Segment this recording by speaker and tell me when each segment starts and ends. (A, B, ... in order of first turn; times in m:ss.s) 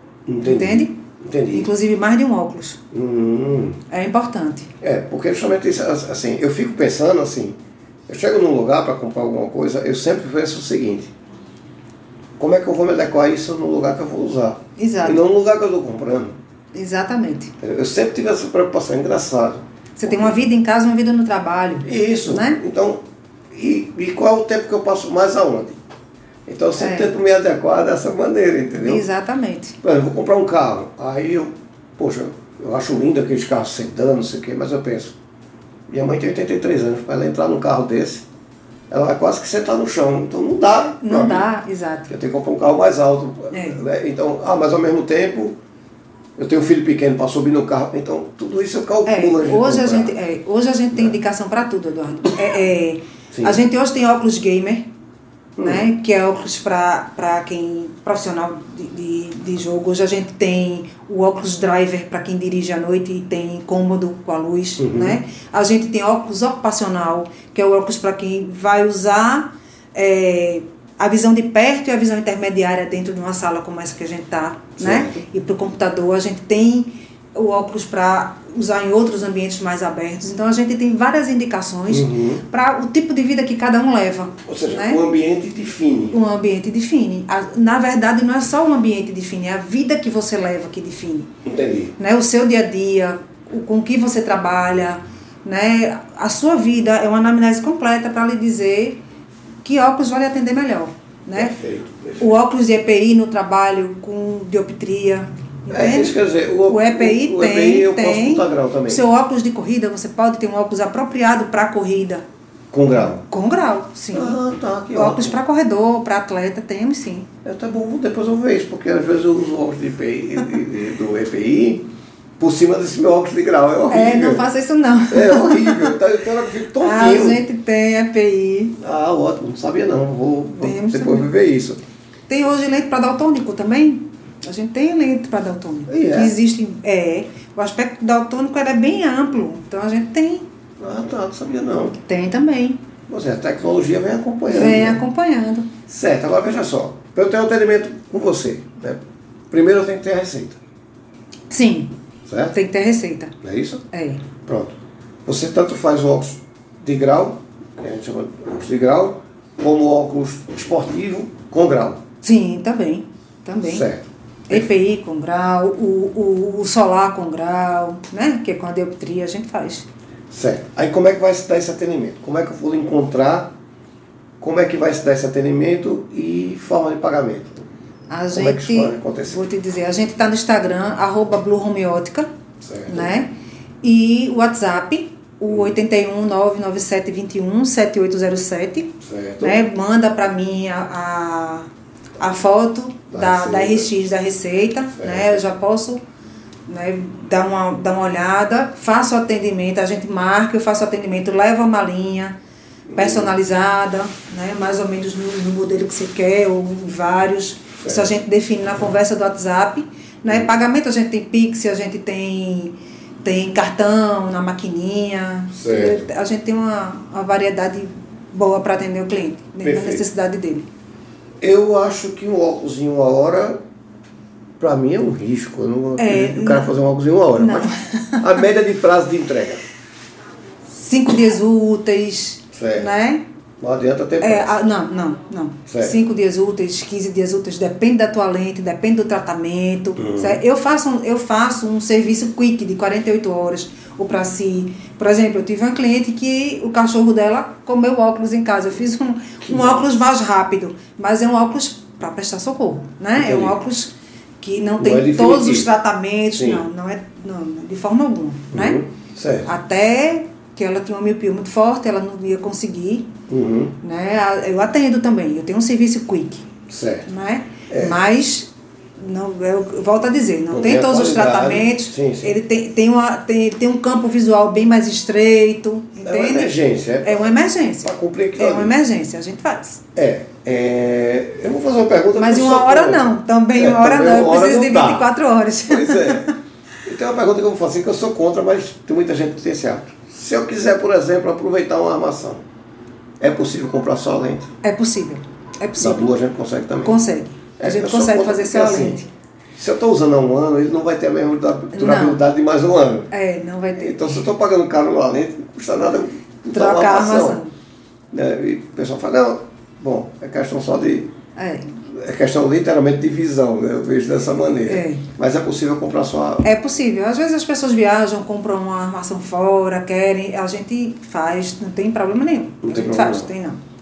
0:00.3-0:01.7 A
0:00.4-0:01.0 B
0:01.5-0:02.8 B
0:02.9-0:03.8 A
0:03.9-0:04.7 B
0:04.8-0:11.1 A
0:12.4-0:16.4 A
0:14.8-0:15.2 B
0:16.7-0:17.6 B
0:17.6-0:20.4 A
0:20.0-0:22.6 B
0:21.8-0:25.8 A
0:26.5-0:29.0 A
0:26.8-0:27.1 B
0:28.8-0:29.8 B
0:29.8-0:35.2 A
0:35.9-0:38.2 A
0:38.9-0:41.5 A
0:41.0-0:42.1 B
0:42.1-0:45.6 A
0:43.5-0:43.8 B
0:46.4-0:50.1 A
0:49.1-0:54.9 B
0:53.3-0:53.6 A
0:55.6-0:55.9 A
0:55.6-1:25.0 B
1:04.8-1:05.2 A
1:14.8-1:15.2 A
1:21.9-1:22.4 A
1:24.4-1:26.2 A
1:26.1-1:31.3 B
1:31.4-1:32.0 A
1:32.0-1:39.0 B
1:39.6-1:41.6 B
1:41.3-1:42.3 A
1:42.2-1:52.2 B
1:45.7-1:49.0 A
1:52.7-1:53.2 A
1:53.0-1:54.4 B
1:54.1-1:55.4 A
1:54.9-1:57.3 B
1:57.4-2:01.9 A
2:02.4-2:04.5 A
2:03.9-2:06.0 B
2:05.1-2:07.4 A
2:06.8-2:08.8 B
2:08.8-2:11.8 A
2:10.6-2:11.3 B
2:12.3-2:20.4 B
2:15.9-2:16.3 A
2:20.8-2:22.0 A
2:22.0-2:22.8 B
2:23.1-2:25.0 A
2:24.5-2:25.7 B
2:25.9-2:29.0 A
2:29.5-2:30.6 A
2:31.5-2:32.0 B
2:32.3-2:32.6 A
2:32.5-2:33.3 B
2:33.4-2:33.8 A
2:33.9-2:34.2 B
2:34.4-2:42.0 A
2:42.2-2:43.9 B
2:43.6-2:44.7 A
2:44.5-2:49.9 B
2:50.3-2:53.5 A
2:54.4-2:57.6 A
2:58.1-3:02.3 B
2:58.3-2:59.4 A
3:02.6-3:03.1 A
3:02.9-3:03.3 B
3:03.8-3:11.7 B
3:09.0-3:09.6 A
3:12.2-3:16.0 B
3:13.1-3:13.9 A
3:15.0-3:15.4 A
3:16.7-3:22.4 B
3:22.9-3:23.3 A
3:23.0-3:40.7 B
3:27.8-3:28.1 A
3:35.5-3:36.0 A
3:39.6-3:40.0 A
3:41.4-3:43.6 A
3:44.6-3:49.6 A
3:46.0-3:46.7 B
3:47.4-3:48.4 B
3:50.7-3:53.2 B
3:52.5-3:52.9 A
3:53.6-3:54.5 A
3:54.2-4:18.8 B
3:55.7-3:56.0 A
4:00.0-4:00.4 A
4:09.5-4:09.7 A
4:13.2-4:13.6 A
4:14.8-4:15.7 A
4:16.3-4:16.6 A
4:18.5-4:19.5 A
4:19.5-4:23.1 B
4:23.3-4:23.8 A
4:23.8-4:26.5 B
4:26.7-4:27.1 A
4:27.1-4:39.8 B
4:27.7-4:28.0 A
4:30.5-4:32.4 A
4:36.0-4:37.3 A
4:37.8-4:38.8 A
4:40.0-4:45.1 A
4:42.2-4:46.3 B
4:45.6-4:52.4 A
4:53.2-4:54.5 A
4:54.6-4:56.1 B
4:55.8-4:57.0 A
4:56.8-4:59.1 B
4:57.6-4:59.0 A
4:59.6-5:03.1 A
5:01.7-5:02.2 B
5:03.1-5:04.2 B
5:03.8-5:07.4 A
5:06.5-5:07.5 B
5:08.1-5:11.1 A
5:11.4-5:11.7 B
5:11.9-5:16.5 A
5:14.7-5:15.1 B
5:16.4-5:23.6 B
5:22.6-5:23.3 A